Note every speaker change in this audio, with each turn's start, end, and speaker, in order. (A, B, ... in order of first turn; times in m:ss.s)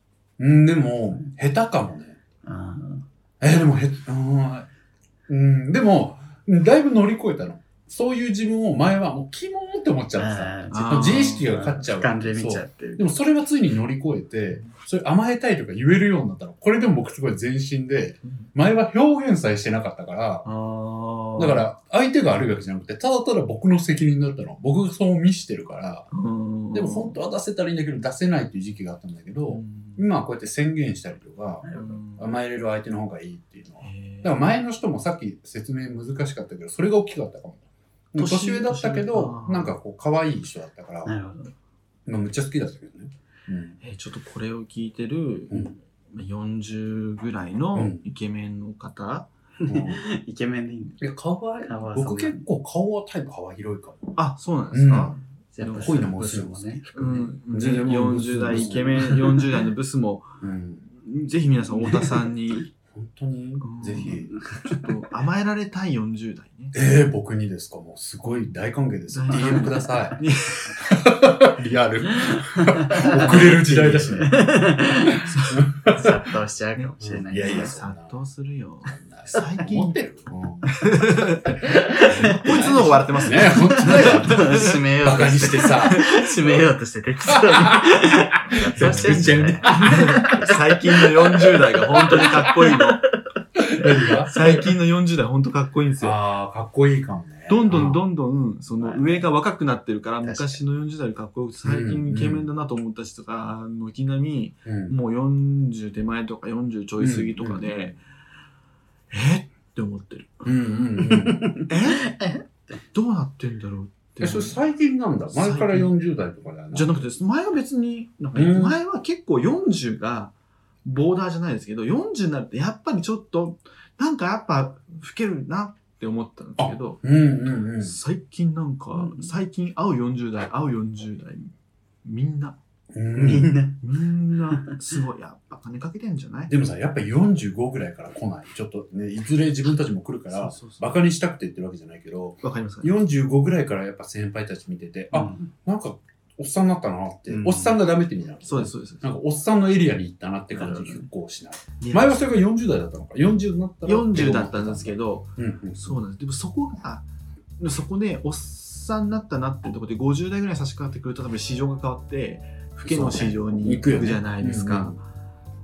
0:00.4-0:02.2 A
0:02.4-0:03.1 B
0:03.4-0:04.7 A
0:05.3-0:20.5 A
0:10.2-0:13.1 B
0:10.7-0:11.5 C
0:20.4-0:21.7 C
0:21.4-0:26.1 A
0:26.1-0:27.2 C
0:26.7-0:37.6 A
0:29.5-0:30.0 C
0:31.6-0:32.0 B
0:31.7-0:32.3 C
0:33.8-0:34.4 C
0:38.1-0:41.1 A
0:38.2-0:39.7 C
0:41.0-0:41.5 B
0:42.1-0:43.8 A
0:43.8-0:49.3 C
0:47.8-0:48.0 A
0:49.6-0:51.1 B
0:49.7-0:50.0 A
0:51.0-0:54.2 A
0:51.6-0:52.4 B
0:54.2-0:55.8 C
0:54.7-0:56.8 A
0:55.5-0:57.4 B
0:57.0-1:00.4 C
0:57.5-0:59.6 A
1:00.4-1:00.9 A
1:00.9-1:02.7 C
1:02.9-1:04.3 A
1:03.6-1:06.8 C
1:06.7-1:16.2 A
1:09.1-1:10.8 C
1:12.1-1:17.8 B
1:15.1-1:15.7 C
1:17.0-1:18.2 A
1:17.4-1:20.0 C
1:18.9-1:26.1 A
1:20.7-1:24.8 C
1:21.8-1:33.2 B
1:25.9-1:26.2 C
1:27.3-1:30.5 A
1:28.5-1:33.1 C
1:32.1-1:32.7 A
1:33.6-1:34.6 A
1:34.3-1:36.2 C
1:36.0-1:38.0 A
1:37.5-1:48.0 C
1:38.8-1:39.3 B
1:40.2-1:40.6 B
1:41.6-1:42.5 A
1:44.6-1:45.0 A
1:47.0-1:47.9 A
1:49.1-1:50.8 C
1:50.4-1:51.5 A
1:51.1-1:52.4 B
1:51.7-1:52.2 C
1:52.9-1:54.6 C
1:54.2-1:57.0 A
1:55.3-1:55.9 C
1:56.7-2:00.3 C
1:58.3-1:58.8 A
2:00.8-2:07.0 C
2:06.6-2:08.0 A
2:07.8-2:11.5 C
2:08.9-2:09.3 B
2:12.0-2:12.6 C
2:12.9-2:13.6 A
2:13.1-2:13.8 B
2:13.8-2:16.6 C
2:16.5-2:36.0 A
2:20.3-2:21.0 C
2:22.4-2:22.9 C
2:25.1-2:25.5 B
2:27.3-2:27.8 B
2:28.4-2:29.1 C
2:30.5-2:31.1 B
2:31.8-2:32.3 C
2:33.8-2:37.1 C
2:37.6-2:45.0 C
2:42.8-2:45.0 A